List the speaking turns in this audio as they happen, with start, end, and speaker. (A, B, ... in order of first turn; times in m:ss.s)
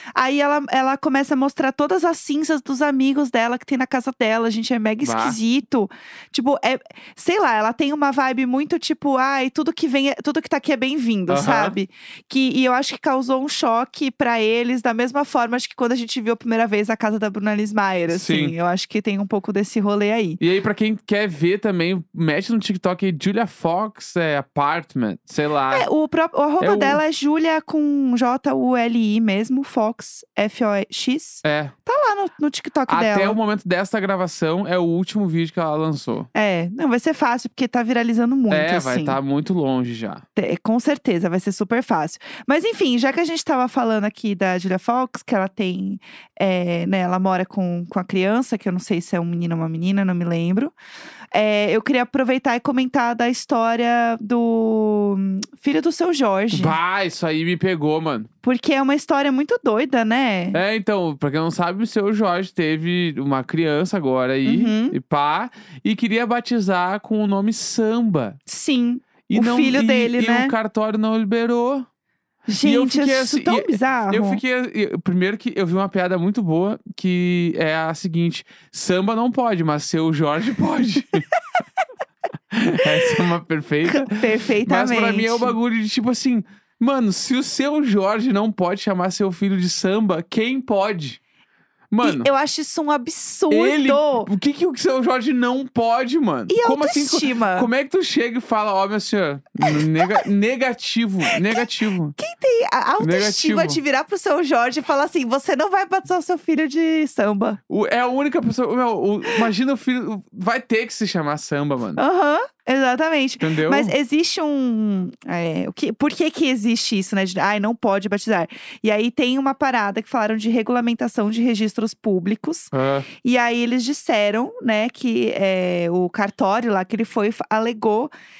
0:00.2-0:20.4 A
0:05.0-0:05.4 B
0:11.3-0:11.8 B
0:18.1-0:18.5 B
0:20.4-0:25.9 B
0:25.7-0:33.4 A
0:26.6-0:27.0 B
0:31.4-0:31.7 B
0:32.9-0:36.3 B
0:36.3-0:39.2 A
0:38.5-0:40.2 B
0:40.4-0:50.7 A
0:51.3-0:56.7 A
0:56.5-0:58.3 B
0:58.4-1:00.6 A
1:00.5-1:08.4 B
1:04.4-1:05.0 A
1:08.5-1:10.5 A
1:09.3-1:11.8 B
1:12.5-1:14.4 A
1:12.6-1:21.2 B
1:22.5-1:31.2 B
1:23.8-1:25.5 A
1:31.9-1:32.3 B
1:32.0-1:34.3 A
1:33.5-1:42.2 B
1:36.5-1:37.7 A
1:39.6-1:40.2 A
1:42.2-1:47.6 A
1:43.0-1:43.8 B
1:47.7-1:52.0 B
1:52.0-2:08.1 A
1:53.4-1:53.9 B
2:02.7-2:03.1 B